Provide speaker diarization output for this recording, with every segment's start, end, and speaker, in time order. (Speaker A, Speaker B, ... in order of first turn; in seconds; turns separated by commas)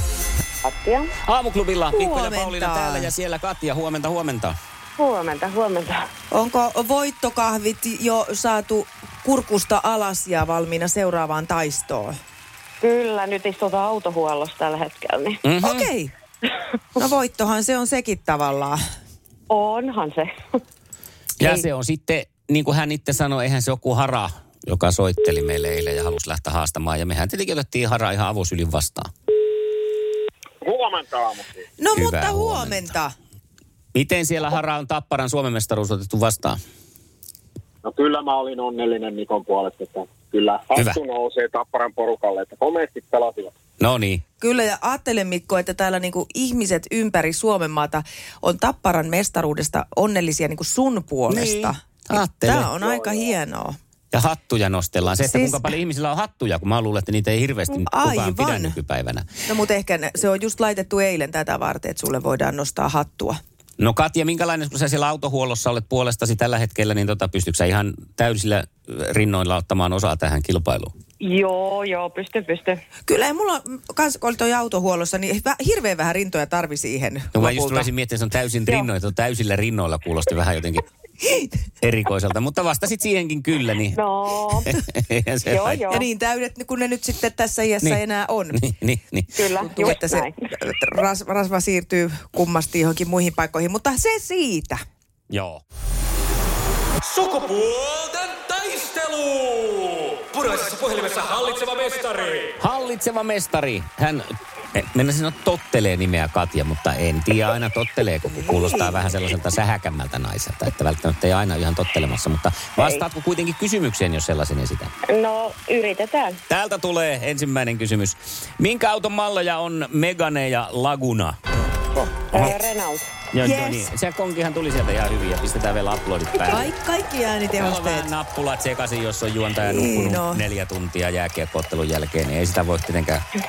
Speaker A: 0.6-1.1, Speaker B: 1.2-4.6, Speaker C: 1.9-3.1, Speaker A: 5.0-6.1, Speaker C: 6.3-12.2, Speaker A: 12.8-15.4, Speaker B: 15.4-15.9, Speaker C: 15.6-16.1, Speaker C: 17.0-18.8, Speaker A: 19.5-20.4, Speaker B: 21.4-29.1, Speaker D: 30.6-31.6, Speaker C: 31.8-33.1, Speaker B: 31.9-32.9, Speaker B: 34.0-36.6, Speaker D: 37.8-43.5, Speaker B: 43.8-44.2, Speaker C: 44.4-53.8, Speaker B: 51.3-52.7, Speaker D: 52.8-53.3, Speaker B: 54.1-59.3, Speaker C: 55.2-55.7, Speaker C: 57.9-58.8, Speaker C: 59.5-63.4, Speaker B: 63.8-70.9, Speaker A: 71.2-72.8, Speaker C: 73.1-77.9, Speaker B: 77.3-80.8, Speaker C: 81.2-81.5, Speaker B: 81.8-84.0, Speaker A: 83.9-84.7, Speaker B: 84.6-85.8, Speaker A: 85.5-86.1, Speaker C: 85.9-88.6, Speaker B: 88.5-89.4, Speaker A: 89.3-90.3, Speaker C: 89.6-94.8, Speaker B: 95.3-95.6, Speaker E: 97.0-102.5, Speaker B: 102.6-114.9, Speaker C: 108.3-109.1, Speaker A: 112.8-113.0, Speaker A: 115.0-116.4, Speaker B: 116.5-121.4, Speaker A: 121.9-123.1, Speaker B: 122.3-122.7, Speaker B: 123.3-126.7, Speaker C: 123.4-123.9, Speaker C: 126.5-128.1, Speaker B: 127.6-133.2, Speaker C: 129.6-130.4